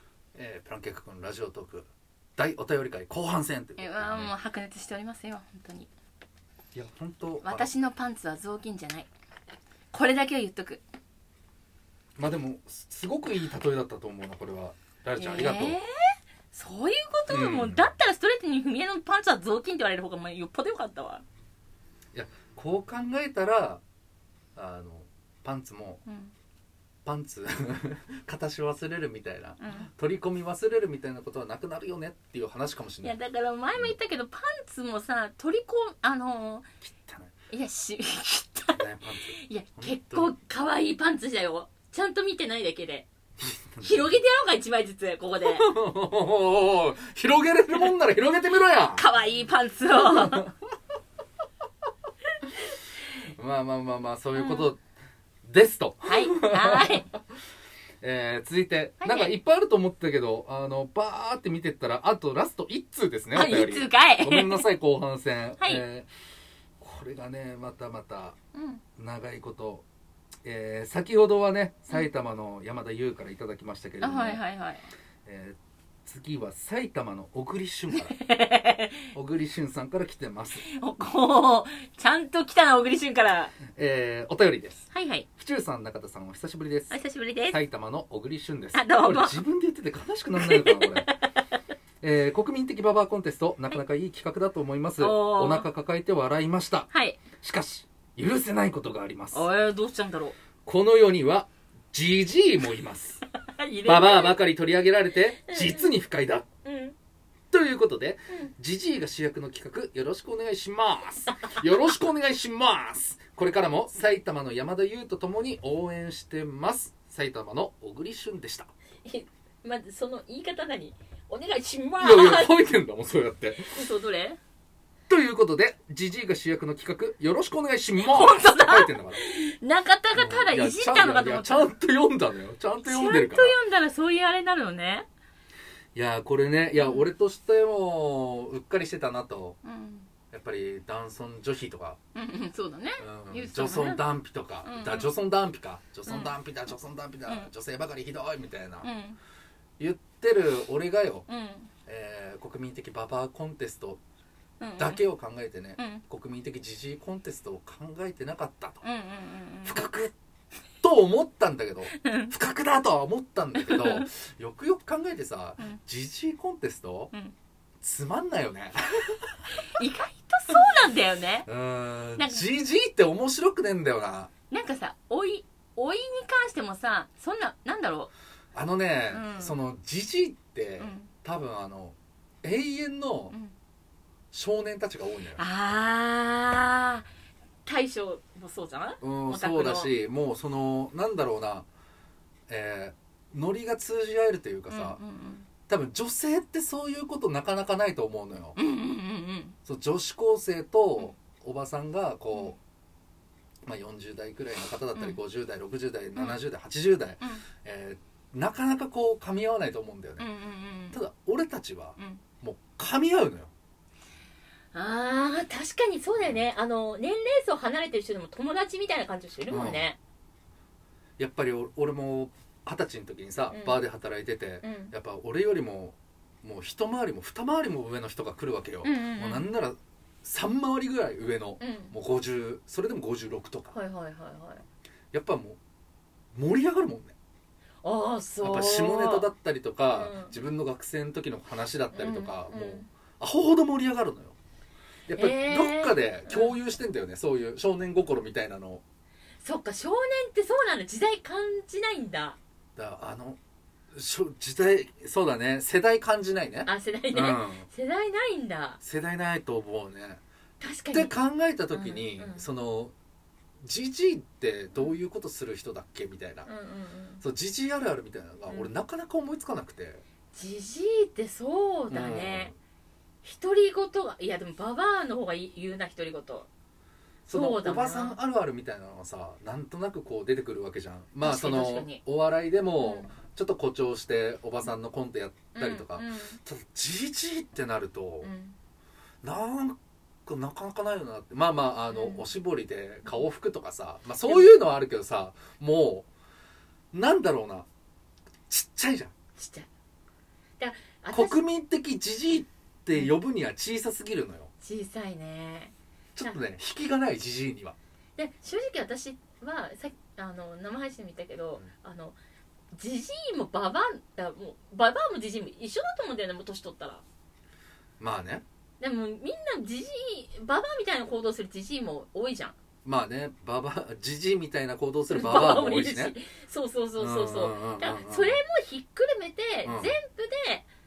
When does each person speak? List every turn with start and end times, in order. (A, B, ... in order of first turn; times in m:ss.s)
0:00.4-0:04.3 A
0:03.8-0:05.9 B
0:06.7-0:07.7 A
0:07.4-0:09.1 B
0:09.9-0:10.8 B
0:12.2-0:15.8 A
0:15.2-0:15.9 B
0:16.5-0:21.2 B
0:17.3-0:17.9 A
0:22.1-0:23.8 A
0:24.6-0:26.0 A
0:26.0-0:26.3 B
0:27.0-0:33.2 A
0:29.6-0:29.9 B
0:33.0-0:36.7 B
0:36.8-0:37.3 A
0:37.5-0:43.1 B
0:38.7-0:40.3 A
0:43.4-0:44.1 A
0:43.8-0:45.7 B
0:45.4-0:49.1 A
0:49.0-0:50.5 B
0:50.0-0:50.3 A
0:53.4-0:54.8 A
0:54.3-0:54.7 B
0:55.4-0:57.2 A
0:56.0-0:57.1 B
0:58.0-1:06.1 A
0:59.0-0:59.4 B
1:03.3-1:04.7 B
1:06.8-1:08.4 A
1:08.5-1:08.8 B
1:09.0-1:09.9 A
1:10.4-1:14.4 A
1:14.0-1:14.9 B
1:15.2-1:18.2 A
1:17.9-1:19.1 B
1:19.1-1:20.6 A
1:20.6-1:23.6 B
1:23.7-1:27.0 A
1:24.9-1:25.3 B
1:26.9-1:27.6 B
1:27.5-1:31.1 A
1:28.7-1:29.4 B
1:30.3-1:31.2 B
1:32.0-1:39.5 A
1:35.0-1:35.7 B
1:36.9-1:37.2 B
1:39.3-1:40.4 B
1:40.7-1:43.2 A
1:43.4-1:44.4 B
1:43.8-1:46.4 A
1:45.4-1:45.9 B
1:46.6-1:46.9 B
1:47.5-1:58.7 A
1:59.0-2:02.6 B
2:02.0-2:03.8 A
2:03.6-2:04.4 B
2:05.1-2:09.2 A
2:08.0-2:11.7 B
2:10.1-2:13.6 A
2:12.8-2:15.1 B
2:15.9-2:19.6 A
2:16.7-2:17.1 B
2:19.6-2:20.1 B
2:20.3-2:22.0 A
2:22.2-2:24.0 B
2:23.0-2:28.9 A
2:24.6-2:25.1 B
2:26.1-2:26.3 B
2:28.8-2:29.2 B
2:29.8-2:31.2 A
2:31.3-2:31.7 B
2:31.8-2:34.0 A
2:34.6-2:35.0 B
2:34.8-2:38.8 A
2:35.8-2:36.0 B
2:38.8-2:39.8 B
2:39.6-2:40.1 A
2:40.8-2:47.1 A
2:41.9-2:42.3 B
2:43.6-2:44.1 B
2:47.8-2:49.4 A
2:49.7-2:51.5 B
2:51.5-2:54.3 A
2:52.2-2:52.4 B
2:54.5-2:58.1 B
2:58.5-3:03.3 A
2:59.1-2:59.6 B
3:00.8-3:01.1 B
3:04.3-3:05.4 A
3:05.4-3:07.1 B
3:07.6-3:09.9 B
3:09.0-3:11.7 A
3:12.5-3:15.0 A
3:14.7-3:15.5 B
3:15.7-3:18.6 A
3:18.6-3:19.6 B
3:19.6-3:22.6 A
3:23.7-3:30.3 A
3:30.2-3:31.0 B
3:30.9-3:33.5 A
3:34.7-3:40.0 B
3:39.5-3:39.8 A
3:41.2-3:53.8 A
3:43.5-3:43.8 B
3:44.6-3:44.9 B
3:48.8-3:49.5 B
3:51.6-3:51.9 B
3:53.7-3:54.6 B
3:55.1-3:55.6 A
3:56.3-3:57.2 A
3:57.8-3:59.3 B
3:58.4-4:04.4 A
3:59.9-4:00.3 B
4:01.9-4:02.9 B
4:05.1-4:08.8 A
4:05.2-4:06.6 B
4:09.4-4:12.4 B
4:12.8-4:13.4 A
4:13.9-4:17.7 A
4:16.6-4:18.8 B
4:18.8-4:20.2 A
4:20.6-4:21.1 B
4:20.9-4:22.9 A
4:21.7-4:22.5 B
4:23.6-4:26.5 A
4:26.4-4:27.2 B
4:27.2-4:30.0 A
4:28.5-4:28.7 B
4:30.3-4:32.5 B
4:31.9-4:32.6 A
4:33.2-4:36.5 B
4:37.3-4:38.2 B
4:37.3-4:48.3 A
4:41.2-4:42.0 B
4:42.8-4:43.1 B
4:45.6-4:46.4 B
4:48.2-4:48.6 B
4:49.2-4:56.1 A
4:51.9-4:52.3 B
4:54.2-4:54.5 B
4:56.9-4:57.7 A
4:58.5-4:59.1 A
4:59.4-4:59.7 B
5:00.6-5:01.4 B
5:01.1-5:04.5 A
5:04.6-5:06.4 B
5:06.2-5:07.8 A
5:08.2-5:12.2 B
5:12.7-5:17.0 B
5:18.0-5:18.4 A
5:18.8-5:22.6 B
5:22.8-5:26.2 A
5:25.1-5:30.7 B
5:27.0-5:28.4 A
5:29.6-5:29.9 A